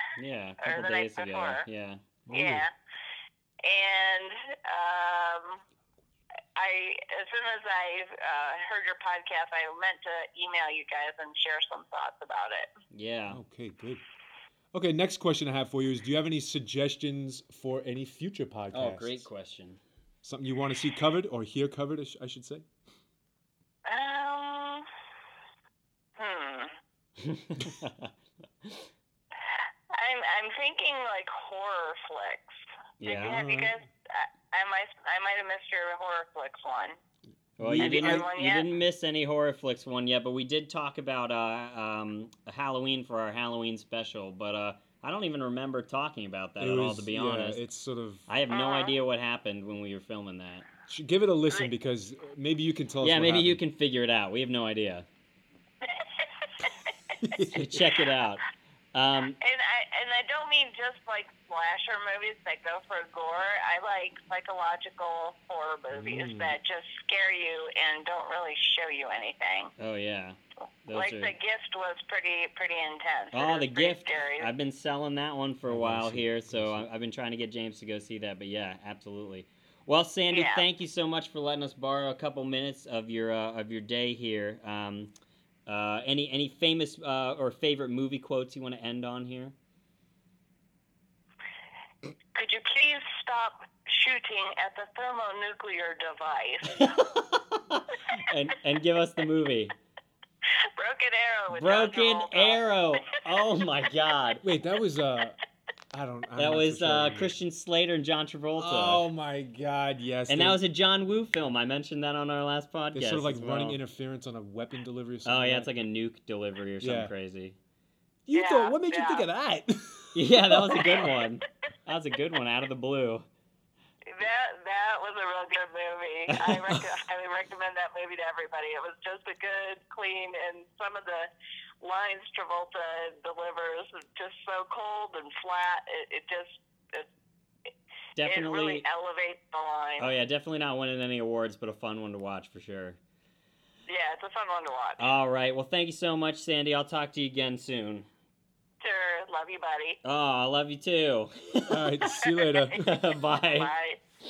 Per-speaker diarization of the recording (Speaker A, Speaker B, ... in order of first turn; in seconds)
Speaker A: 0.2-2.0, 12.9-13.4, 18.7-19.8, 27.2-28.1, 33.0-33.7, 37.6-47.6, 48.3-50.6, 53.0-55.0, 57.5-58.4, 58.9-59.4, 69.8-71.3, 73.3-85.1, 85.7-89.5, 96.7-99.7, 101.5-104.4, 106.4-109.0, 110.3-113.8, 115.2-117.6, 120.1-123.3, 138.2-138.8, 140.0-143.0, 145.0-148.1, 150.0-152.0, 152.7-153.7
Speaker B: 0.6-1.6, 2.3-2.7, 3.6-5.6, 6.5-12.7, 23.9-24.9, 26.2-26.7, 29.5-37.0, 37.8-38.7, 48.5-49.0, 55.8-57.2, 59.4-69.7, 70.9-74.5, 80.3-80.6, 92.3-96.9, 100.8-102.6, 118.3-119.2, 124.1-137.1, 138.2-140.1, 143.9-145.1, 148.8-150.0, 152.3-154.0
Speaker C: 2.3-2.6, 13.3-14.0, 14.7-19.2, 20.2-22.6, 33.4-33.7, 37.6-38.3, 46.6-48.3, 50.9-53.6, 57.2-57.8, 65.9-66.5, 75.7-76.9, 104.4-105.4, 105.9-107.4, 108.6-110.6, 112.9-115.7, 116.8-117.1, 118.2-121.0, 126.3-126.9, 151.7-152.8